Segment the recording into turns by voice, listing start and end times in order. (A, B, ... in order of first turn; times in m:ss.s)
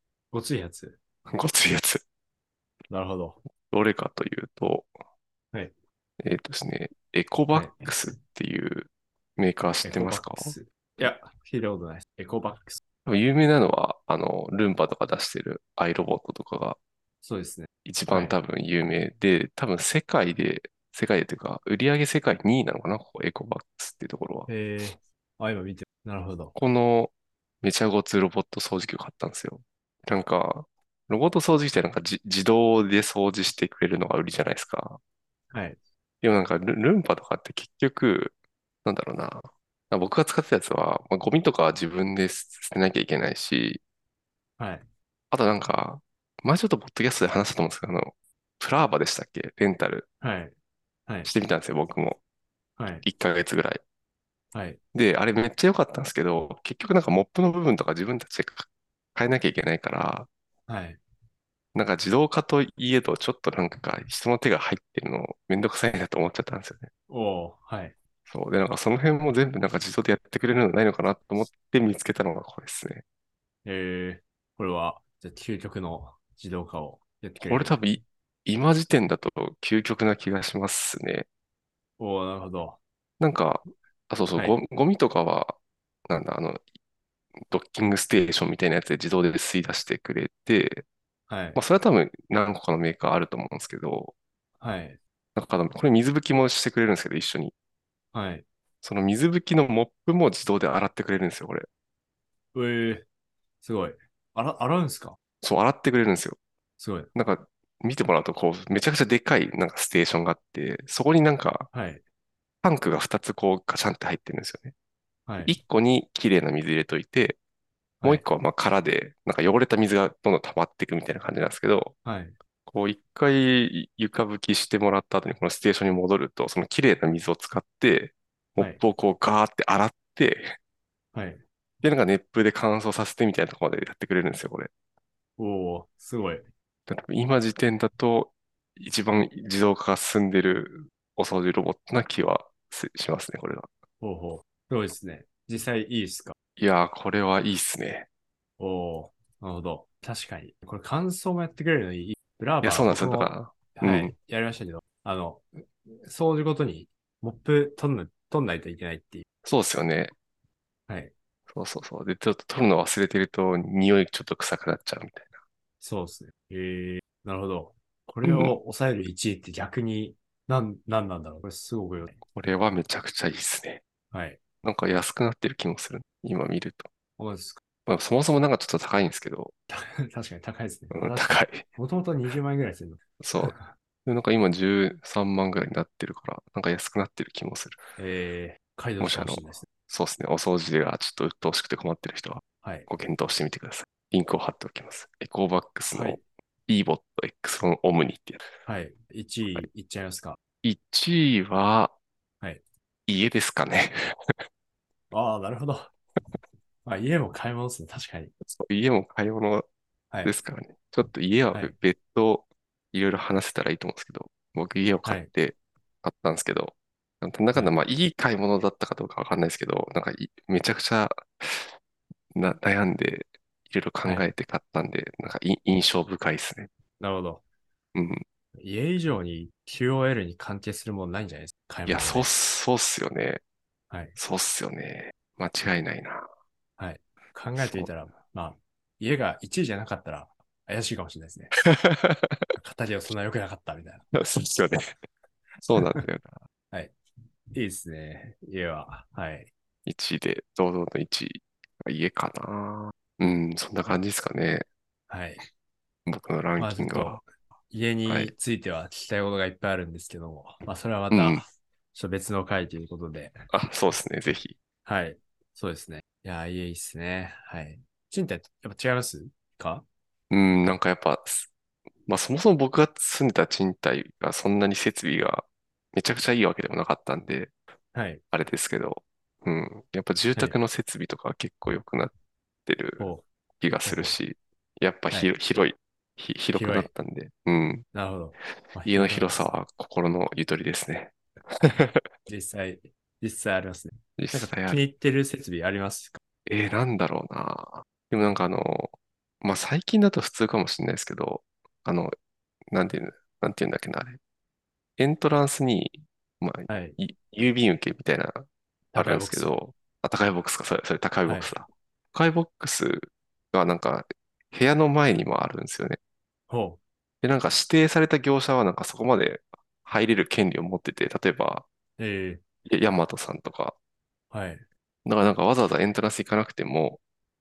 0:00.3-0:01.0 A
0:01.3-0:02.0 B
0:02.9-0:03.4 A
0:03.7-0:04.9 B
0:06.2-0:11.0 B
0:07.5-0:07.9 A
0:09.8-0:12.8 A
0:13.0-0:16.8 B
0:17.2-0:18.4 A
0:17.8-0:24.5 B
0:24.5-0:26.5 A
0:26.6-0:35.0 B
0:35.5-0:35.8 A
0:36.2-0:38.3 B
0:38.8-0:43.8 B
0:44.6-0:44.8 A
0:45.3-0:50.0 B
0:50.2-0:50.5 A
0:51.2-0:52.2 B
0:52.8-0:53.0 A
0:53.0-0:53.8 B
0:54.5-0:54.8 A
0:54.9-1:00.3 B
1:00.7-1:01.0 A
1:01.7-1:06.9 B
1:07.1-1:08.0 A
1:08.3-1:13.0 B
1:13.6-1:17.8 A
1:17.4-1:21.3 B
1:22.0-1:22.8 A
1:23.2-1:26.6 B
1:27.5-1:30.8 B
1:31.3-1:31.6 A
1:31.5-1:34.1 B
1:34.6-1:35.0 A
1:35.4-1:37.5 B
1:38.1-1:38.4 A
1:38.8-1:41.7 B
1:42.5-1:43.1 A
1:43.6-1:45.2 A
1:45.4-1:46.4 B
1:46.8-1:47.1 A
1:47.1-1:51.7 B
1:51.7-1:52.0 A
1:52.6-1:54.7 B
1:55.3-1:55.6 A
1:55.4-1:57.4 B
1:58.0-2:01.9 B
2:02.0-2:02.4 A
2:02.7-2:10.5 B
2:11.1-2:11.4 A
2:11.8-2:14.7 B
2:15.4-2:16.5 A
2:16.9-2:23.7 B
2:24.0-2:26.4 A
2:26.6-2:28.1 B
2:28.6-2:39.3 A
2:32.6-2:34.1 B
2:39.4-2:40.1 B
2:40.9-2:41.1 A
2:41.5-2:45.3 B
2:45.8-2:52.2 A
2:48.2-2:48.6 B
2:52.3-2:53.8 B
2:54.1-2:54.4 A
2:54.6-2:56.9 B
2:57.2-2:57.6 A
2:57.9-2:59.5 B
2:59.7-3:03.7 A
3:00.9-3:01.6 B
3:03.2-3:03.5 B
3:04.0-3:07.8 B
3:08.0-3:09.7 A
3:09.0-3:18.4 B
3:12.6-3:12.9 A
3:15.9-3:16.2 A
3:18.6-3:20.4 A
3:20.6-3:21.9 B
3:23.1-3:24.3 B
3:25.1-3:25.9 A
3:26.8-3:28.3 A
3:28.4-3:29.6 B
3:30.1-3:30.4 A
3:30.2-3:41.7 B
3:35.0-3:35.3 A
3:42.3-3:46.7 B
3:44.0-3:44.3 A
3:47.0-3:47.4 A
3:47.9-3:48.2 B
3:48.6-3:52.3 A
3:51.9-3:53.4 B
3:53.9-3:54.2 A
3:54.2-3:56.2 B
3:56.8-4:01.5 A
3:57.6-3:57.9 B
4:01.6-4:02.5 B
4:02.6-4:04.0 A
4:04.1-4:05.0 B
4:05.6-4:06.4 B
4:05.8-4:06.0 A
4:07.5-4:09.5 A
4:09.8-4:14.6 B
4:15.1-4:15.4 A
4:16.1-4:17.2 B
4:16.6-4:23.5 A
4:18.1-4:18.3 B
4:21.1-4:21.4 B
4:23.5-4:24.5 B
4:24.8-4:29.8 A
4:30.3-4:31.5 B
4:32.1-4:37.5 B
4:37.9-4:38.2 A
4:38.3-4:42.1 B
4:42.6-4:43.0 B
4:43.0-4:43.2 A
4:43.6-4:47.8 B
4:43.8-4:44.2 A
4:46.5-4:46.9 A
4:47.9-4:49.4 A
4:48.8-4:52.0 B
4:52.3-4:56.2 A
4:54.2-4:54.8 B
4:56.4-5:02.1 B
5:02.7-5:04.2 B
5:05.0-5:16.0 B
5:06.7-5:07.0 A
5:08.9-5:09.5 A
5:11.2-5:11.5 A
5:16.5-5:16.8 A
5:17.2-5:21.6 B
5:22.0-5:22.4 A
5:22.6-5:23.8 B
5:24.3-5:24.6 A
5:25.0-5:27.0 B